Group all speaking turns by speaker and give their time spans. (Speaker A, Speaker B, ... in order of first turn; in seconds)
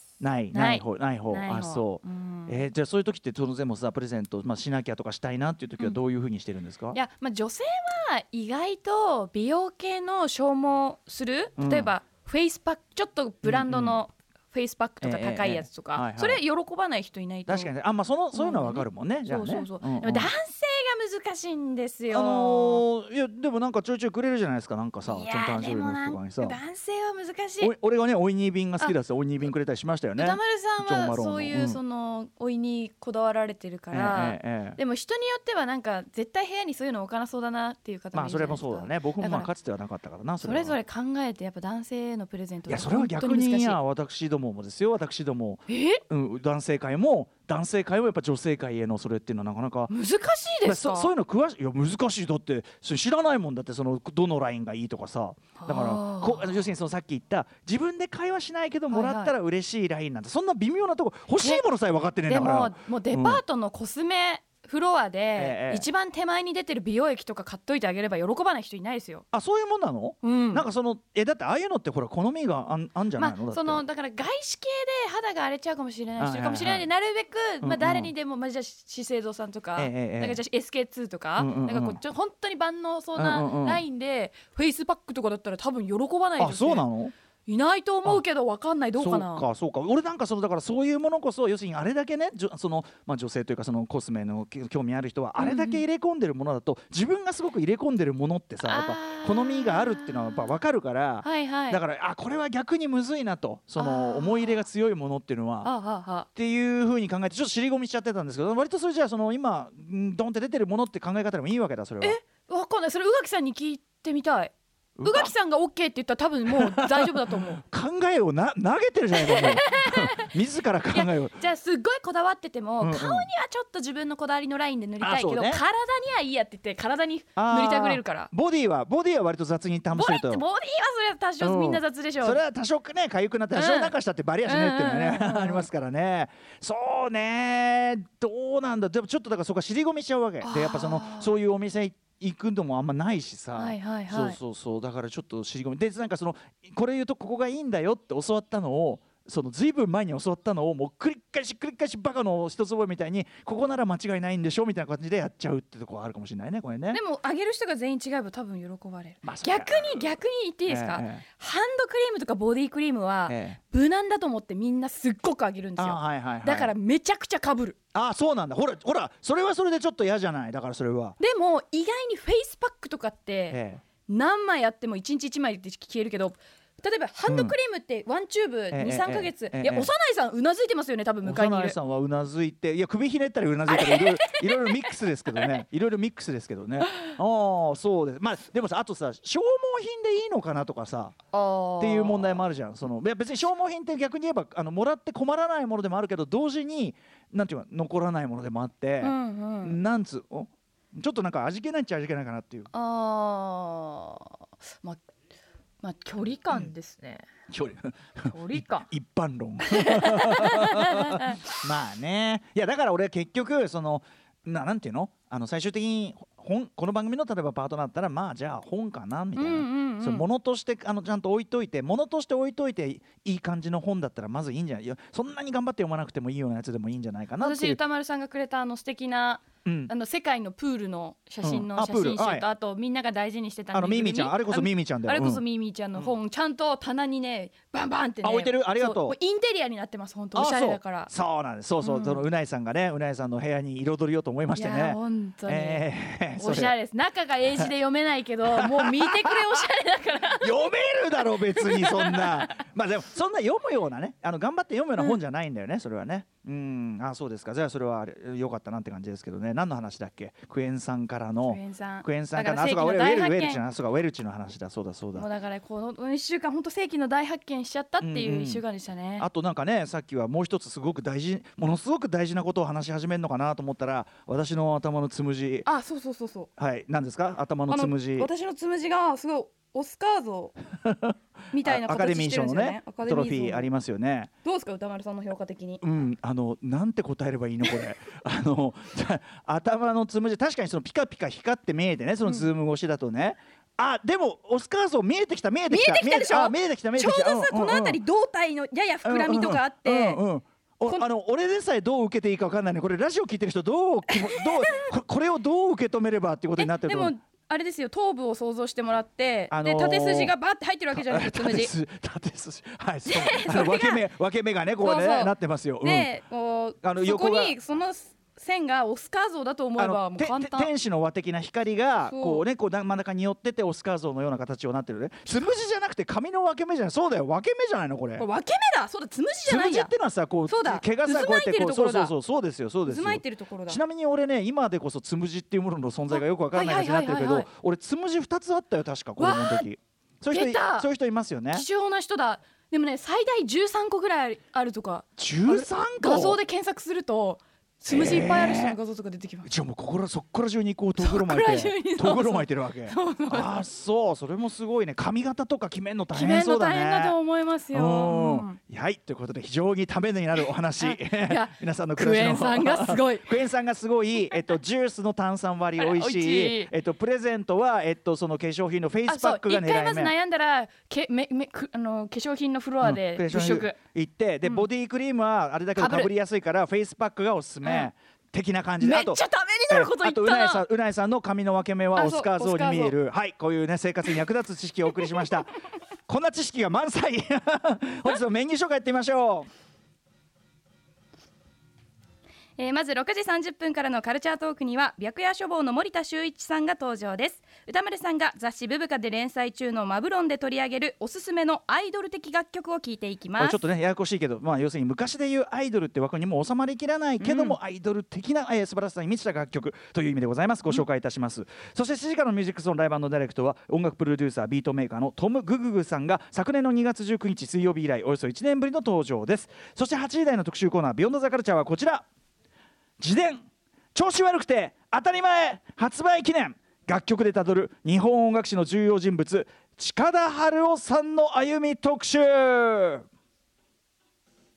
Speaker A: 0.2-7.0, 11.6-11.9, 13.4-14.0, 15.0-16.4, 17.5-20.3, 22.1-26.6, 27.6-31.8, 33.9-34.8, 38.1-40.8, 42.7-49.9, 50.6-63.4, 65.3-65.9, 69.3-73.8, 76.2-76.9, 77.6-78.1, 79.8-80.4, 81.4-82.0, 83.2-83.8, 86.4-87.1, 89.0-105.7, 106.3-112.2, 115.0-115.3, 116.5-121.3, 122.8-123.3, 125.0-125.6, 127.3-130.4, 131.4-157.0, 159.2-160.1, 160.7-161.2, 163.3-163.6, 165.8-166.7, 167.9-171.2, 173.5-173.8, 177.2-177.5, 178.7-179.9, 181.2-191.2, 191.8-202.7, 207.5-227.8, 229.6-229.9, 231.4-232.4, 233.7-235.4, 238.2-239.2, 240.3-246.7, 248.5-249.6, 250.4-265.3, 268.0-268.6, 269.2-275.7, 276.6-278.3, 280.8-284.3, 285.8-298.0, 299.0-307.1, 309.5-310.4, 310.9-316.1, 316.8-317.6, 319.8-328.3, 329.4-341.6, 345.2-346.4, 347.9-348.8, 349.4-357.2, 357.7-370.1, 372.8-385.5, 386.1-389.5, 403.4-422.1, 423.0-423.4, 423.9-433.0
Speaker B: 0.5-2.6, 6.9-17.7, 18.3-22.9, 25.1-27.7, 30.2-39.5, 40.4-43.8, 45.7-46.0, 49.9-51.1, 55.6-56.6, 58.9-59.3, 61.4-61.6, 62.2-69.2, 70.2-70.7, 73.2-86.9, 87.5-89.5, 95.4-95.8, 98.6-100.5, 101.2-101.8, 103.8-104.6, 105.6-106.3, 112.0-117.6, 119.1-120.3, 120.9-128.3, 129.9-132.4, 133.5-135.7, 140.4-141.3, 143.5-144.4, 156.9-167.8, 171.2-181.8, 183.7-185.6, 186.8-187.1, 191.3-192.4, 199.0-199.8, 202.7-205.0, 205.8-207.2, 208.3-208.9, 209.6-211.4, 219.3-220.3, 227.4-241.1, 241.8-242.2, 244.5-250.7, 251.4-252.6, 261.4-263.6, 265.1-269.3, 275.6-276.5, 277.7-280.6, 281.5-283.7, 284.4-285.8, 295.7-300.2, 304.1-304.9, 306.6-311.7, 313.1-314.0, 314.8-320.7, 322.0-322.4, 328.2-329.9, 330.4-332.1, 332.8-333.8, 336.1-337.5, 339.2-339.7, 340.3-340.9, 341.5-349.5, 351.0-353.6, 356.1-358.6, 360.8-363.3, 365.8-366.7, 369.1-373.8, 375.8-376.1, 377.6-377.9, 378.8-380.6, 381.9-382.9, 392.6-403.6, 407.2-407.6